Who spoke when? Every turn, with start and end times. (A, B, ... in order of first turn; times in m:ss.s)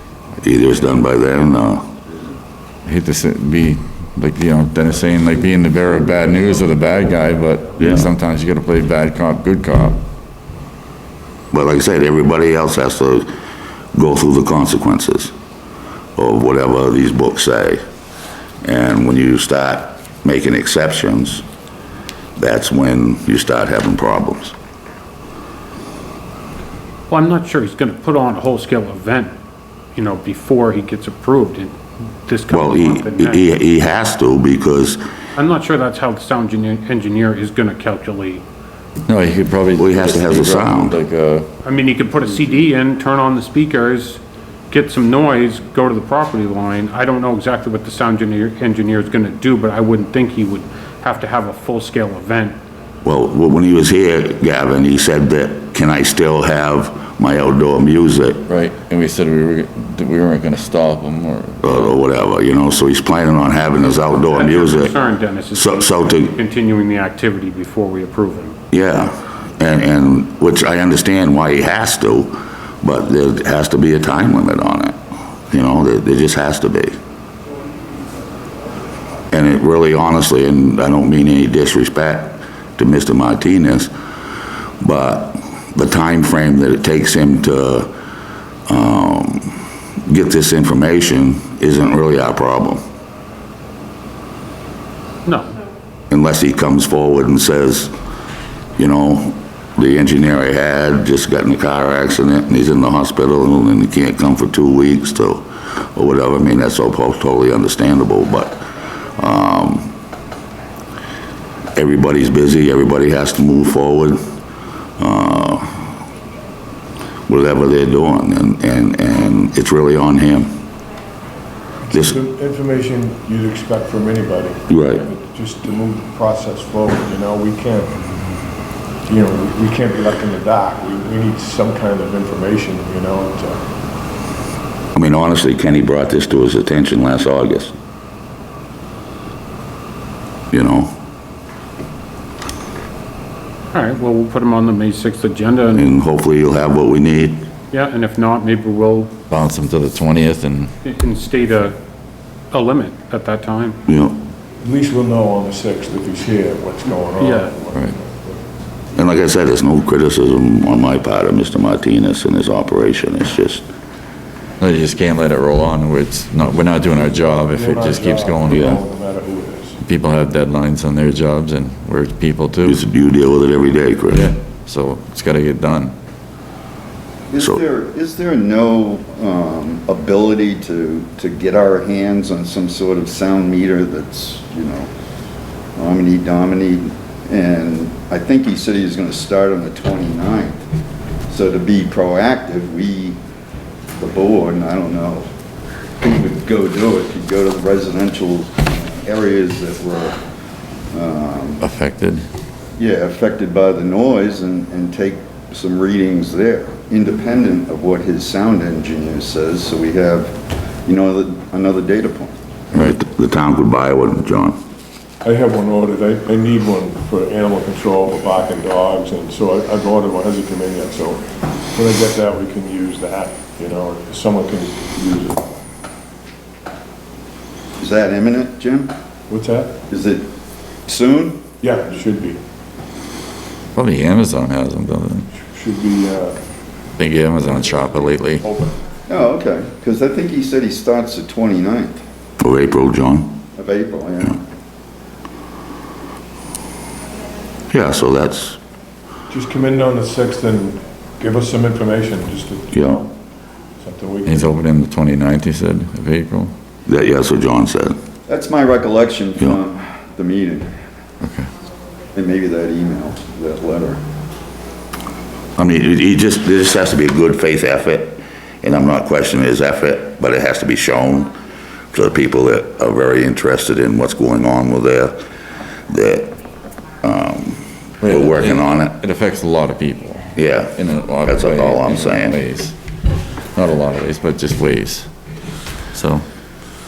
0:00.4-0:01.9 A
0:02.8-0:10.0 B
0:07.8-0:08.1 A
0:11.5-0:13.3 A
0:13.9-0:15.3 A
0:16.2-0:17.8 A
0:18.6-0:21.4 A
0:22.4-0:24.5 A
0:27.1-0:29.3 C
0:29.9-0:33.4 C
0:32.5-0:35.0 A
0:35.4-0:38.4 C
0:39.1-0:41.5 B
0:39.8-0:41.0 A
0:41.6-0:52.6 C
0:53.0-0:58.4 A
0:58.5-1:01.9 B
1:01.6-1:04.9 A
1:04.3-1:08.6 C
1:05.5-1:06.4 A
1:08.7-1:15.0 A
1:15.5-1:16.9 A
1:19.3-1:23.9 A
1:24.8-1:27.9 A
1:28.7-1:29.5 A
1:30.1-1:32.8 A
1:35.2-1:35.5 C
1:36.1-1:37.9 A
1:38.8-1:48.6 A
1:49.2-1:49.9 A
1:51.7-1:54.2 A
1:55.0-1:55.8 A
1:57.3-2:00.6 A
2:01.8-2:08.0 D
2:01.9-2:02.2 A
2:04.7-2:05.0 A
2:09.0-2:13.6 D
2:14.9-2:17.7 A
2:20.5-2:20.9 A
2:23.7-2:25.9 C
2:25.7-2:27.5 A
2:27.7-2:29.1 C
2:29.3-2:30.7 B
2:30.8-2:31.8 C
2:32.5-2:33.8 C
2:33.9-2:34.2 A
2:34.6-2:38.4 D
2:37.2-2:37.5 C
2:38.9-2:43.6 A
2:44.6-2:48.7 B
2:47.0-2:49.8 D
2:48.5-2:48.8 A
2:49.8-2:52.8 B
2:52.6-2:54.3 A
2:54.1-2:55.9 B
2:57.3-3:04.9 E
3:05.8-3:10.6 E
3:11.3-3:13.2 E
3:14.0-3:15.3 E
3:16.0-3:20.2 E
3:20.9-3:21.6 E
3:21.6-3:22.2 B
3:22.8-3:32.4 E
3:32.7-3:34.6 A
3:35.2-3:45.4 D
3:47.8-3:48.9 E
3:49.3-3:49.8 D
3:49.9-3:50.3 E
3:50.8-3:51.5 E
3:51.6-3:52.4 D
3:53.7-3:55.3 B
3:55.4-3:56.4 D
3:57.0-3:58.5 B
3:57.5-3:58.8 D
3:59.1-4:02.0 E
4:02.4-4:03.4 A
4:03.6-4:04.4 E
4:07.7-4:08.6 A
4:09.3-4:13.1 D
4:12.7-4:13.0 A
4:13.8-4:14.5 D
4:14.2-4:16.5 B
4:16.9-4:18.0 A
4:18.3-4:20.7 E
4:21.2-4:21.5 B
4:22.1-4:24.0 E
4:25.6-4:31.3 A
4:31.9-4:35.2 A
4:35.9-4:36.4 A
4:37.0-4:39.0 A
4:38.0-4:42.8 B
4:40.3-4:42.4 A
4:43.5-4:45.1 B
4:45.9-4:46.3 B